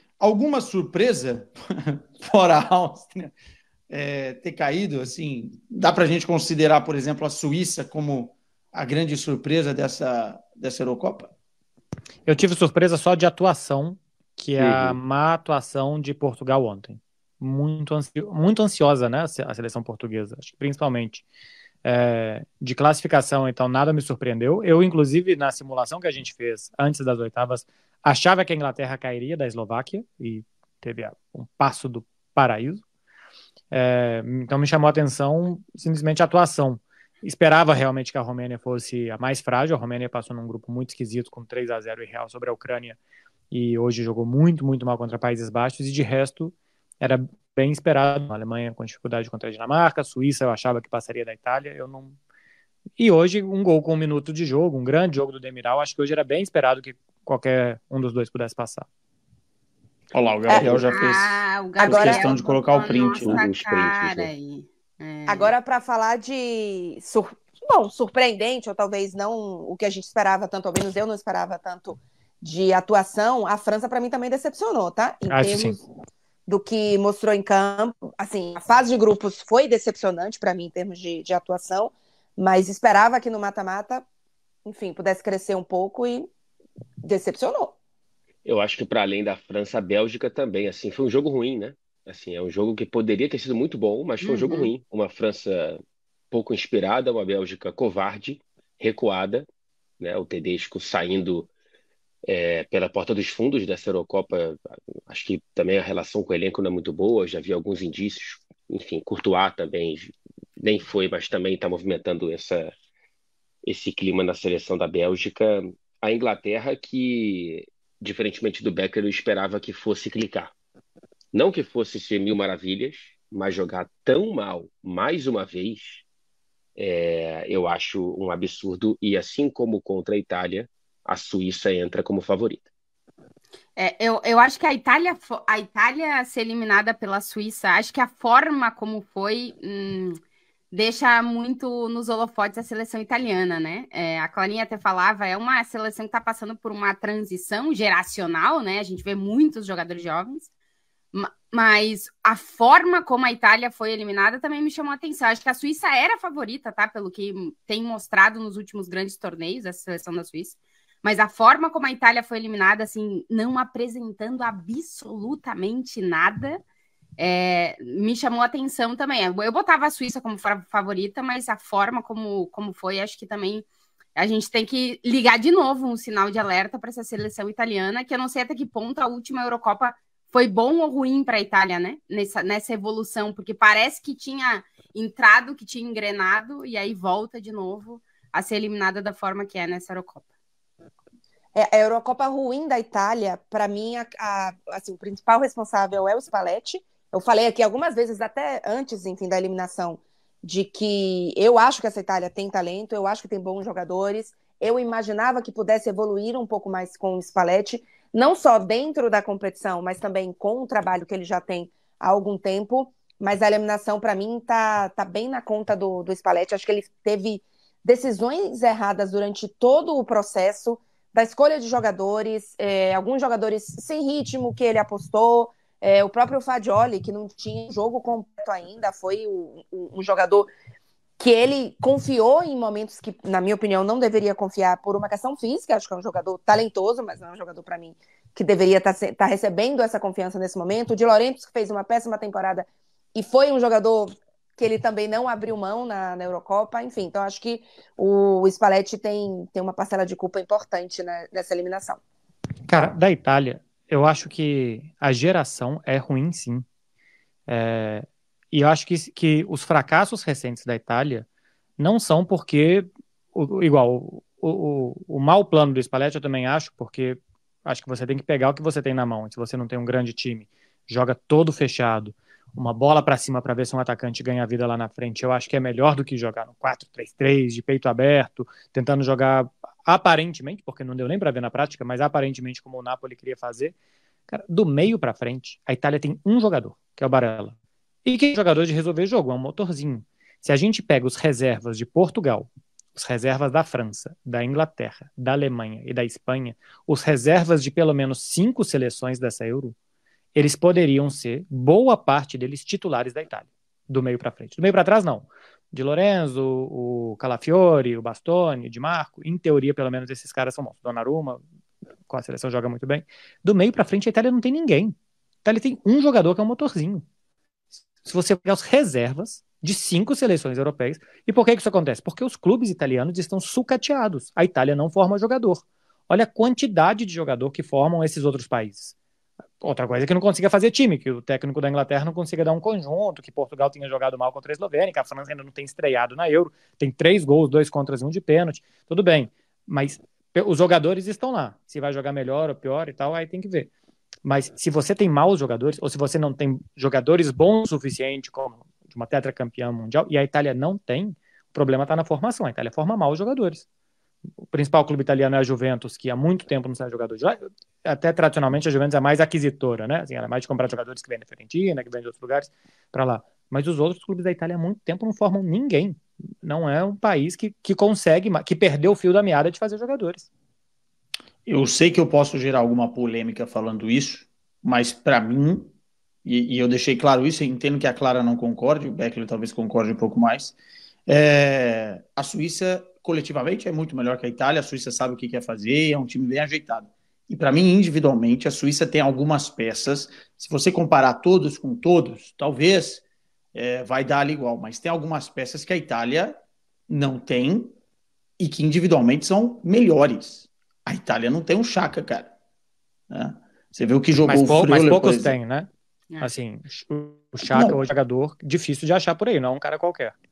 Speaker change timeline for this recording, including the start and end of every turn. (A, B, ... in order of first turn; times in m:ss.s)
0:00.2-0:03.3 A
0:03.9-0:11.3 A
0:12.2-0:21.2 B
0:14.6-0:15.0 C
0:21.8-0:32.8 B
0:33.7-0:43.0 B
0:43.5-0:52.2 B
0:53.0-0:58.8 B
1:00.1-1:03.4 A
1:00.6-1:00.9 C
1:00.9-1:05.5 D
1:01.8-1:02.2 E
1:03.2-1:04.3 C
1:05.3-1:15.8 E
1:15.3-1:15.8 B
1:16.5-1:24.0 E
1:24.6-1:26.3 E
1:27.0-1:27.7 E
1:28.4-1:35.8 C
1:34.2-1:34.7 D
1:36.3-1:39.5 C
1:40.0-1:41.5 C
1:42.2-1:52.7 C
1:53.6-2:00.5 C
2:01.3-2:06.0 C
2:06.8-2:12.7 C
2:13.8-2:20.2 D
2:20.7-2:30.5 D
2:31.1-2:46.6 D
2:47.2-3:10.3 D
3:11.5-3:50.5 E
3:51.2-4:12.0 E
4:12.7-4:16.6 B
4:17.5-4:21.2 B
4:21.8-4:43.7 B
4:44.3-4:59.7 B
5:00.3-5:11.4 B
5:12.1-5:17.0 B
5:18.0-5:28.9 B
5:29.6-5:43.7 B
5:44.2-5:53.6 B
5:54.5-6:10.3 B
6:11.4-6:15.7 A
6:16.2-6:20.6 A
6:21.1-6:33.0 A
6:33.5-6:37.7 A
6:38.4-6:42.3 A
6:43.1-6:45.3 A
6:44.2-6:50.1 B
6:47.5-6:47.8 A